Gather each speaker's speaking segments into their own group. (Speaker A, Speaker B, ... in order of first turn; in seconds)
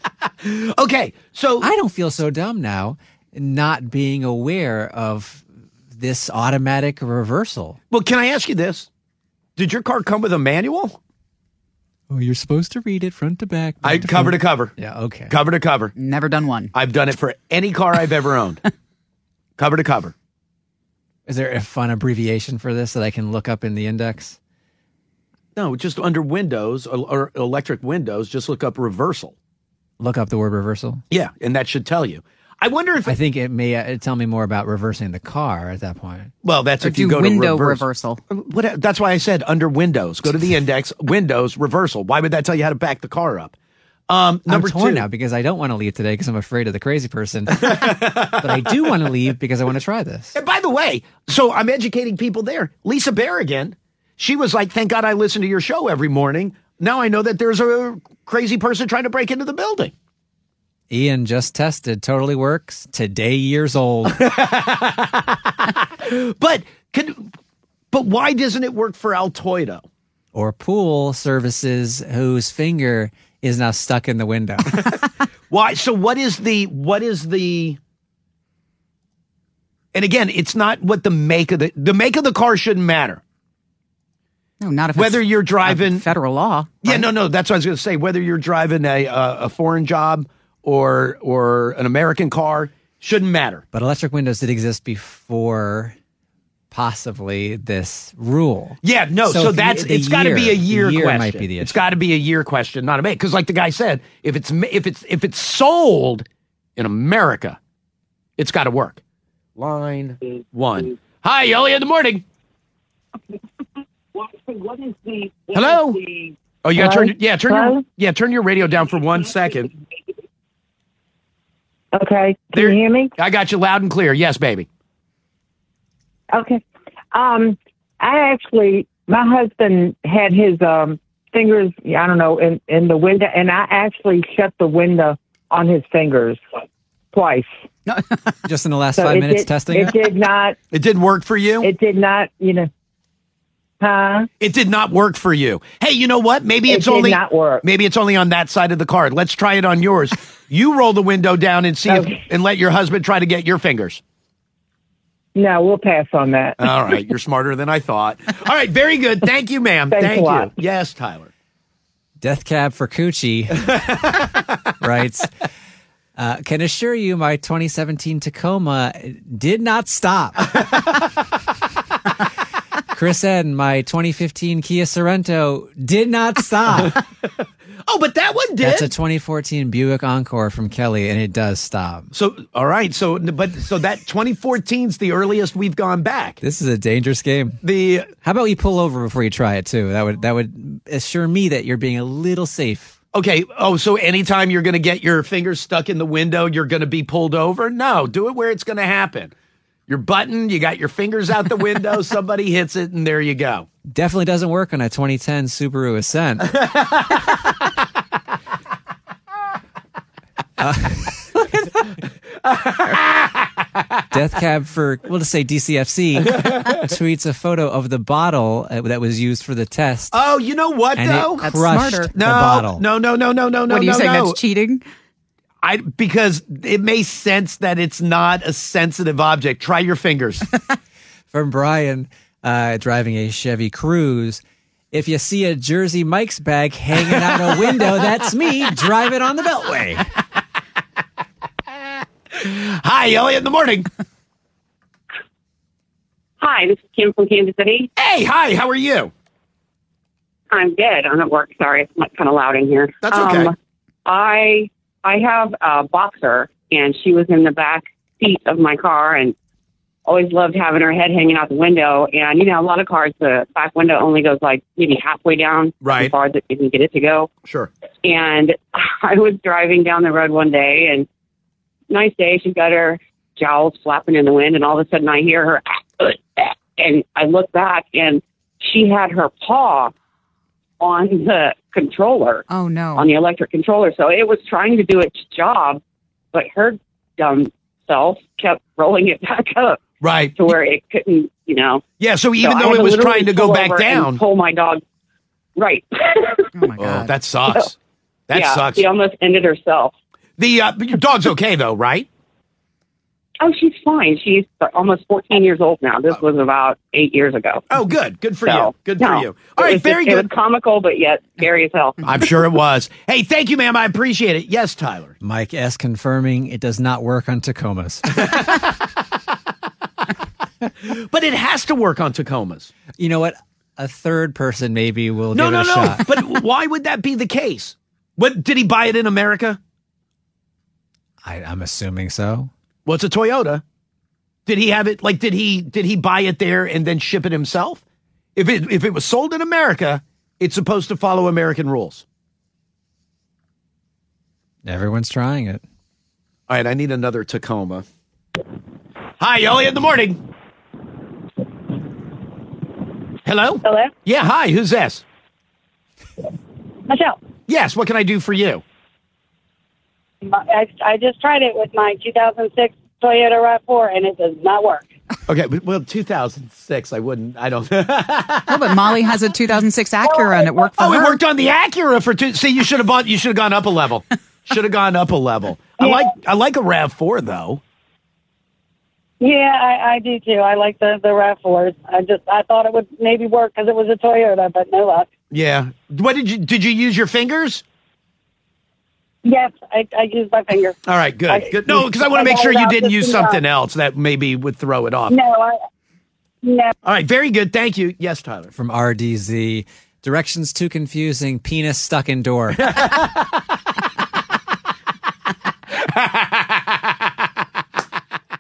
Speaker A: 0.4-1.7, 7.9-8.9, 9.6-11.0, 13.8-14.7, 15.3-15.9, 16.7-18.6, 19.6-20.1, 25.6-29.3, 31.1-33.1, 36.4-43.5, 44.1-45.0, 47.5-48.6, 50.3-59.9, 64.1-67.3, 67.9-69.8, 75.5-77.8, 79.9-83.2, 84.9-86.1, 86.8-93.6, 98.8-106.2, 106.8-107.6, 108.4-109.0, 109.6-112.2, 115.5-116.0, 116.6-119.7, 122.5-124.7, 140.7-141.7, 144.4-154.0, 156.6-161.3, 176.8-178.9, 182.1-186.4, 187.6-188.1, 193.1-199.3, 199.9-203.7, 212.4-213.6, 220.1-221.4, 222.1-224.4, 225.6-230.5, 237.1-238.0, 242.3-243.9, 248.0-249.1, 253.0-253.5, 265.8-266.1, 267.4-267.7, 290.0-290.5, 292.0-294.2, 296.7-297.8, 298.3-298.8, 300.4-302.1, 307.7-310.3, 312.0-315.1, 320.8-322.7, 325.3-329.6, 332.9-333.6, 334.4-337.8, 338.4-342.0, 346.5-347.8, 349.2-350.2, 353.2-355.0, 357.5-358.6, 365.2-369.2, 370.7-377.6, 385.3-387.6, 390.8-395.2, 396.8-398.5, 402.7-403.2, 405.8-406.8
Speaker B: 1.6-7.8, 12.1-15.4, 21.3-24.4, 30.0-31.0, 33.0-36.3, 44.5-50.3, 60.9-64.2, 70.3-75.0, 93.7-95.9, 96.7-101.8, 138.4-140.0, 162.2-165.3, 166.2-171.0, 172.9-177.0, 178.6-182.1, 186.4-187.6, 188.2-193.0, 203.9-206.6, 210.6-211.6, 214.1-220.2, 220.9-222.8, 231.3-240.1, 315.2-318.6, 323.0-326.2, 331.2-332.5, 344.6-345.6, 398.5-403.0
Speaker C: 16.0-16.7, 36.8-38.2, 84.6-87.1, 221.4-222.1, 223.7-224.8, 282.5-283.1, 296.5-297.1, 368.5-371.2
Speaker D: 116.7-117.8, 121.9-123.1, 126.3-136.4, 137.1-137.5, 139.0-140.6, 141.6-142.7, 143.8-144.3, 146.7-147.6, 151.8-152.2, 155.3-156.7, 159.9-160.5
Speaker E: 246.4-247.9, 250.5-253.5, 254.1-259.3, 260.1-267.3, 268.0-271.1, 271.9-279.9, 280.8-282.4, 282.9-285.8, 286.3-289.8, 290.3-291.8, 292.4-294.8, 295.6-296.4, 298.3-299.9, 303.4-307.6, 308.4-312.0
Speaker F: 353.6-353.9, 356.9-357.2, 360.2-364.8, 370.0-370.6, 379.2-385.1, 389.2-390.8, 391.3-393.4, 395.1-395.6, 396.4-396.7